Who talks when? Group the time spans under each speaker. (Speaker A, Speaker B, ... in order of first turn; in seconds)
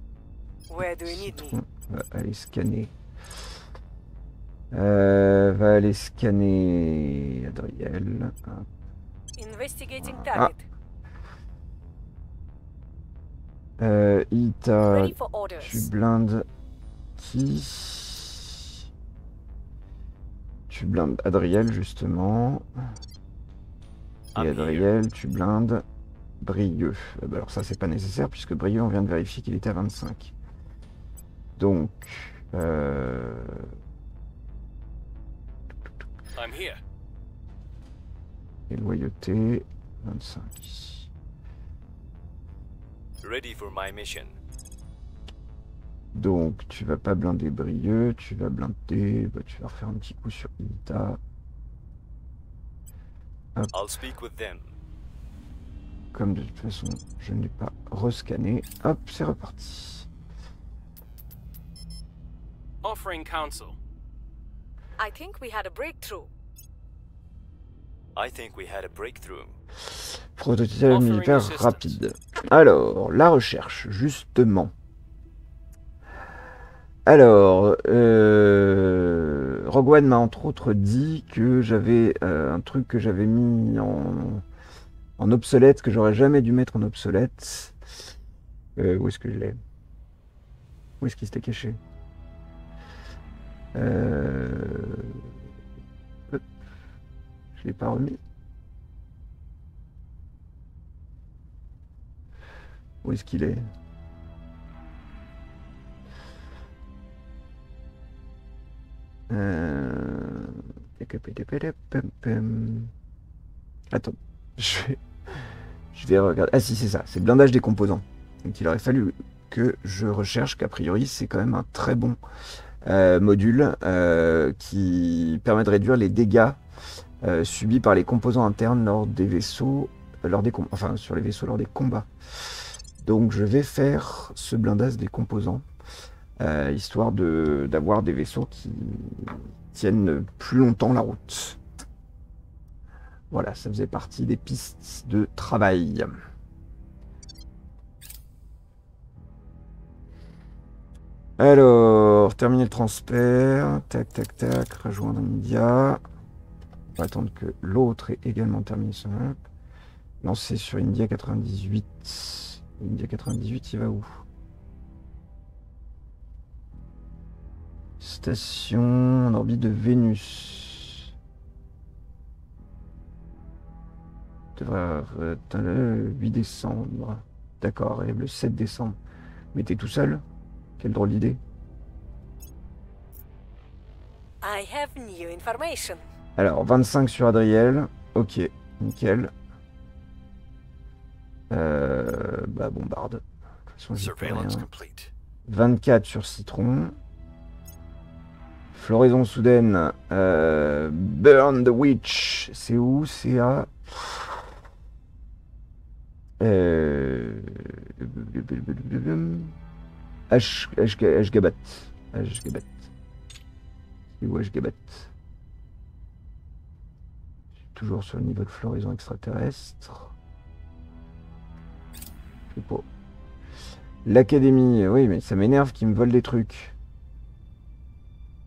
Speaker A: 0.7-1.6, 9.4-10.7, 14.9-15.9, 65.0-66.3, 184.4-186.0
Speaker B: 1.0-2.9, 4.7-8.7, 10.0-10.5, 13.8-16.4, 17.2-18.6, 20.7-22.6, 24.4-25.8, 26.4-30.3, 31.6-33.7, 38.7-41.1, 46.1-51.2, 56.1-60.1, 70.3-74.7, 77.0-84.4, 85.2-87.8, 88.8-89.5, 91.0-91.8, 93.7-95.2, 97.5-98.2, 103.0-103.6, 109.3-112.9, 113.9-115.0, 115.9-122.2, 122.8-126.6, 127.2-135.7, 136.4-141.6, 143.3-146.1, 151.4-156.0, 156.9-159.4, 160.2-164.2, 168.0-171.1, 174.6-179.0, 179.5-180.2, 180.8-181.4, 186.4-189.3, 191.5-194.7, 195.4-197.0, 198.7-204.4, 206.4-209.6, 210.3-212.9, 214.2-215.1, 217.7-220.1, 222.5-222.8, 224.0-226.7
Speaker C: 24.3-24.9, 43.2-44.4, 53.7-54.7, 68.1-69.6, 193.9-195.1
Speaker D: 36.4-36.8, 62.8-63.8, 70.9-72.0